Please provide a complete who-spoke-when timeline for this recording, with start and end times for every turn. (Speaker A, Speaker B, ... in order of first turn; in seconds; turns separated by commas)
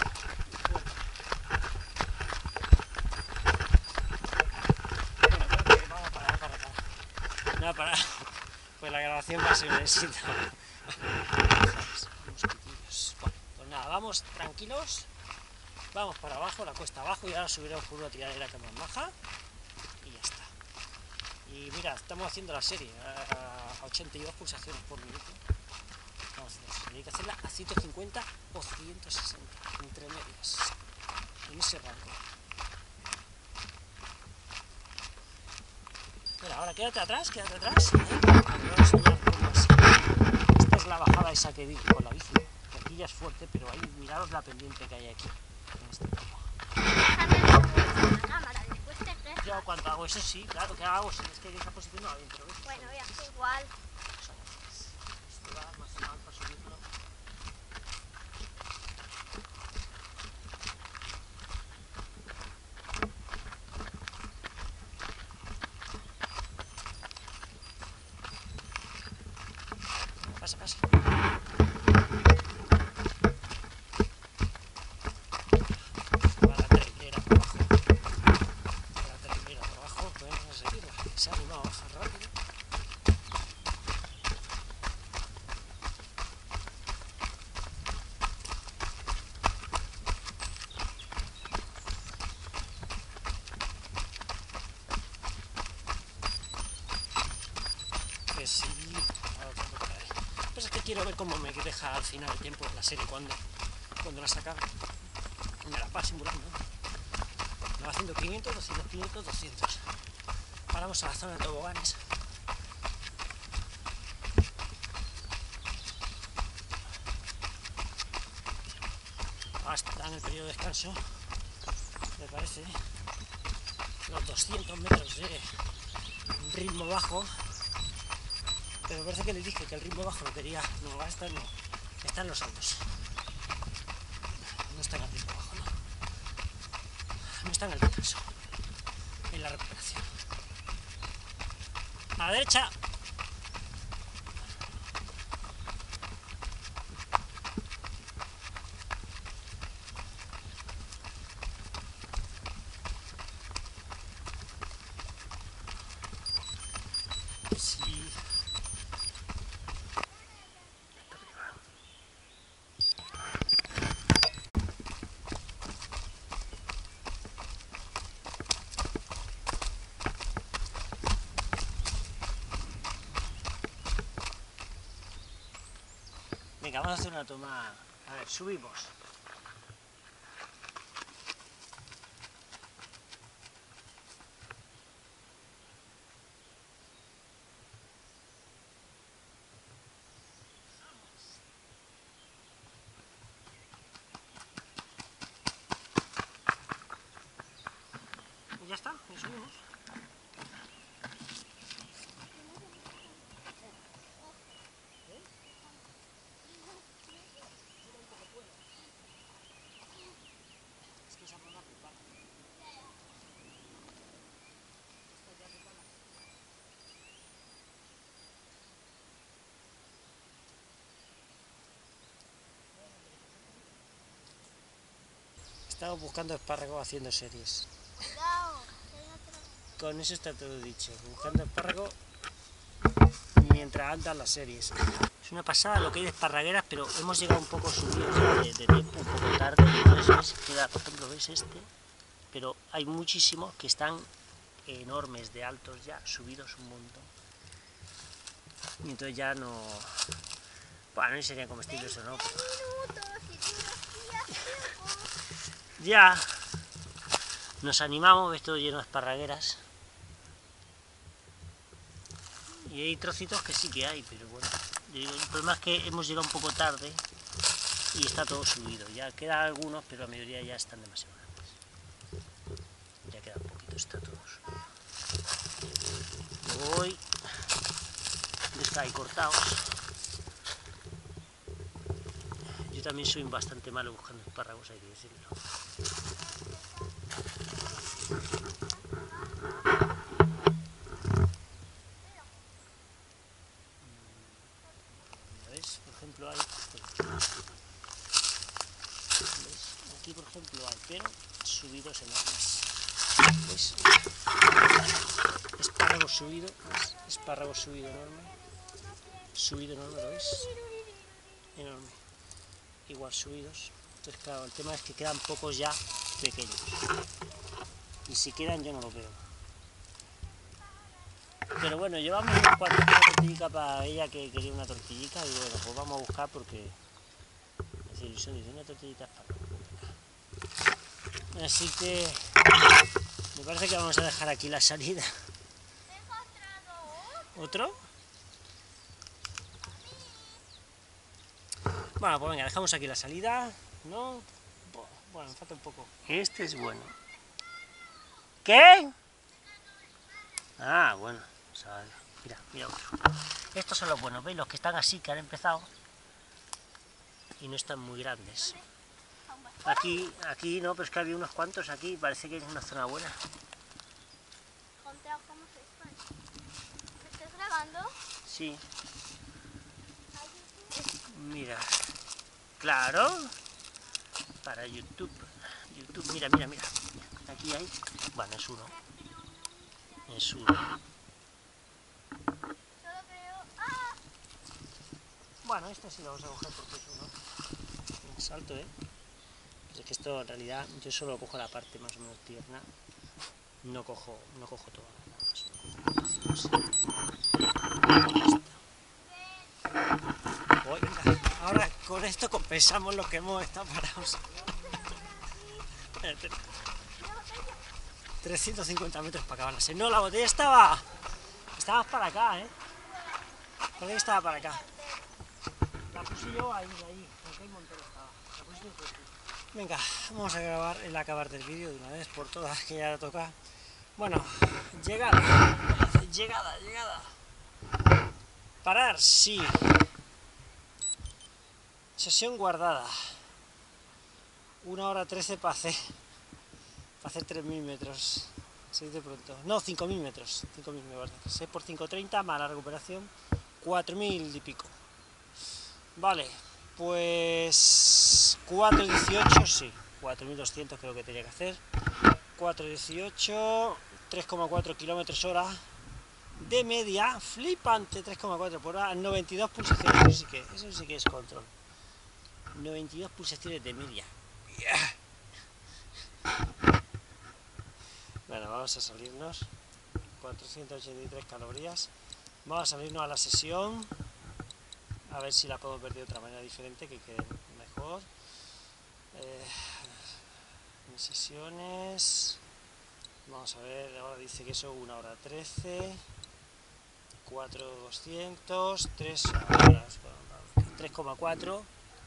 Speaker A: 0.5-1.0, Speaker A: 5.2-15.1, Speaker A: 15.9-19.1, Speaker A: 20.0-20.5, Speaker A: 21.4-25.4, Speaker A: 26.3-30.7, Speaker A: 31.4-32.2, Speaker A: 36.4-46.5, Speaker B: 47.0-49.6, Speaker A: 49.4-53.3, Speaker B: 52.6-53.7, Speaker A: 54.1-56.9, Speaker A: 70.2-71.0, Speaker A: 76.4-77.8, Speaker A: 79.0-82.3, Speaker A: 98.3-103.4, Speaker A: 104.0-104.7, Speaker A: 105.6-106.7, Speaker A: 107.8-109.9, Speaker A: 110.7-112.1, Speaker A: 119.6-121.4, Speaker A: 122.2-123.0, Speaker A: 124.0-125.7, Speaker A: 126.3-127.7, Speaker A: 128.8-132.9, Speaker A: 134.4-135.8, Speaker A: 137.2-138.4, Speaker A: 139.3-140.1, Speaker A: 142.2-142.7, Speaker A: 157.5-158.4, Speaker A: 161.0-161.6, Speaker A: 176.6-178.9, Speaker A: 198.6-199.7, Speaker B: 202.5-203.0, Speaker A: 211.0-212.1, Speaker A: 225.7-227.7, Speaker B: 228.0-229.7, Speaker A: 229.8-232.0, Speaker A: 233.3-241.7, Speaker A: 242.3-244.1, Speaker A: 244.6-247.1, Speaker A: 248.8-250.0, Speaker A: 250.9-252.5, Speaker B: 251.7-255.2, Speaker A: 255.8-256.5, Speaker A: 257.6-259.6, Speaker A: 262.5-267.0, Speaker A: 267.9-271.6, Speaker A: 273.1-274.4, Speaker A: 276.4-277.1, Speaker A: 278.5-279.8, Speaker A: 282.5-285.4, Speaker A: 293.8-297.3, Speaker A: 299.3-302.7, Speaker A: 303.3-304.1, Speaker A: 305.6-308.4, Speaker A: 309.3-310.6, Speaker A: 311.5-312.0, Speaker A: 312.9-316.8, Speaker A: 318.1-319.3, Speaker A: 321.6-326.8, Speaker A: 327.9-330.0, Speaker A: 331.3-332.4, Speaker A: 333.3-335.2, Speaker B: 335.9-337.3, Speaker A: 337.1-337.9, Speaker B: 339.9-340.3, Speaker A: 342.0-346.9, Speaker A: 348.4-348.9, Speaker A: 350.6-355.7, Speaker A: 357.4-358.6, Speaker B: 359.3-359.8, Speaker A: 359.6-363.2, Speaker B: 364.8-366.1, Speaker B: 367.0-368.0, Speaker A: 368.2-368.7, Speaker B: 370.1-370.9, Speaker A: 371.0-371.9, Speaker A: 372.6-373.4, Speaker A: 374.4-378.8, Speaker B: 379.2-379.7, Speaker A: 380.0-380.7, Speaker B: 382.8-384.0, Speaker A: 385.4-387.2, Speaker A: 388.0-388.7, Speaker A: 389.7-392.7, Speaker A: 393.6-396.7, Speaker A: 397.9-398.6, Speaker A: 400.6-404.5, Speaker A: 405.8-406.6, Speaker B: 407.0-407.6, Speaker A: 408.2-410.9, Speaker A: 411.5-412.5, Speaker A: 413.7-414.8, Speaker A: 415.9-423.4, Speaker A: 423.9-427.2, Speaker A: 428.6-429.9, Speaker A: 432.0-433.3, Speaker A: 434.6-436.0, Speaker A: 437.0-444.8, Speaker A: 445.9-451.6, Speaker A: 452.4-455.7, Speaker A: 456.4-461.5, Speaker A: 462.5-465.0, Speaker A: 468.3-469.5, Speaker A: 470.2-471.9, Speaker A: 472.4-473.9, Speaker A: 475.1-478.1, Speaker A: 479.1-480.2, Speaker A: 480.8-482.4, Speaker A: 483.2-486.0, Speaker A: 487.2-491.7